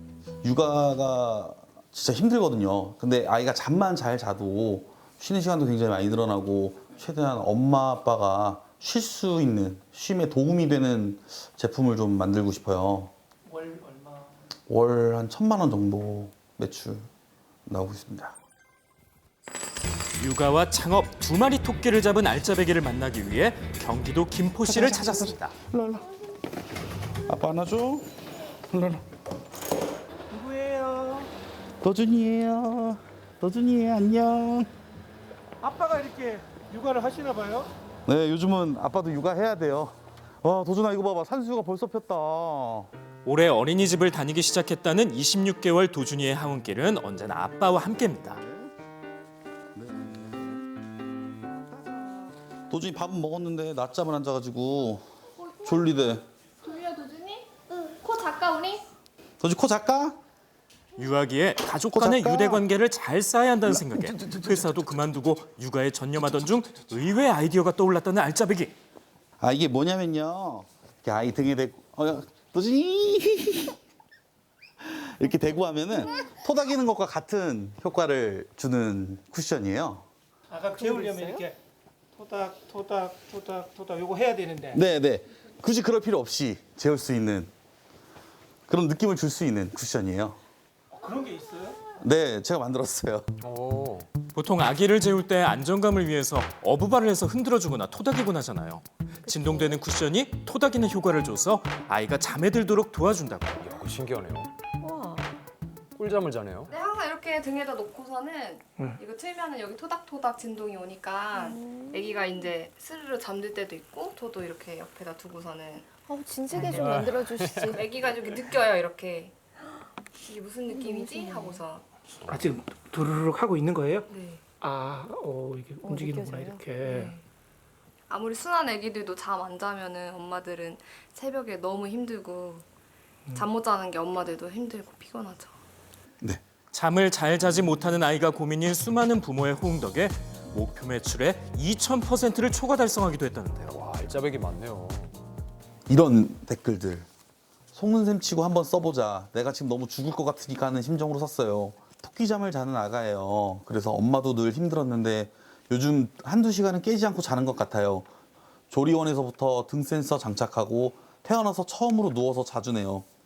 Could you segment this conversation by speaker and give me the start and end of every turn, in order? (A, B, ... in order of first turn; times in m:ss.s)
0:00.4-0:13.1 A
0:13.5-0:14.3 B
0:14.7-0:17.1 A
0:17.7-0:18.4 A
0:20.2-0:25.6 C
0:24.6-0:26.1 A
0:27.3-0:28.1 A
0:28.7-0:29.0 A
0:30.3-0:31.3 B
0:31.8-0:34.7 A
0:35.6-0:37.7 B
0:38.1-0:42.9 A
0:43.2-0:48.4 C
0:48.3-0:48.7 A
0:49.8-0:50.6 A
0:51.8-0:52.1 A
0:52.7-0:56.2 A
0:56.6-0:57.5 D
0:58.0-0:58.8 D
0:59.4-1:00.2 A
1:01.0-1:08.8 C
1:01.9-1:02.6 A
1:03.6-1:05.0 A
1:09.4-1:13.8 A
1:14.8-1:20.1 A
1:20.5-1:21.6 B
1:20.8-1:21.4 E
1:22.2-1:24.8 B
1:24.7-1:27.5 A
1:28.7-1:30.4 A
1:30.9-1:31.8 B
1:32.0-1:33.3 A
1:33.4-1:34.1 F
1:34.3-1:43.7 C
1:39.3-1:39.8 E
1:43.6-1:44.5 F
1:44.8-1:45.3 E
1:46.0-1:46.7 F
1:46.7-1:55.9 D
1:51.3-1:52.3 E
1:56.1-1:57.8 E
1:56.5-1:57.1 B
1:56.7-1:57.8 F
1:57.7-1:59.4 D
2:00.2-2:01.8 D
2:00.7-2:01.6 E
2:02.3-2:04.1 B
2:04.1-2:04.4 D
2:04.6-2:07.1 B
2:05.8-2:07.1 E
2:06.8-2:07.2 D
2:08.1-2:12.6 D
2:13.3-2:15.6 D
2:16.7-2:23.8 C
2:23.7-2:25.2 F
2:25.9-2:27.1 A
2:27.7-2:38.1 A
2:38.7-2:43.1 A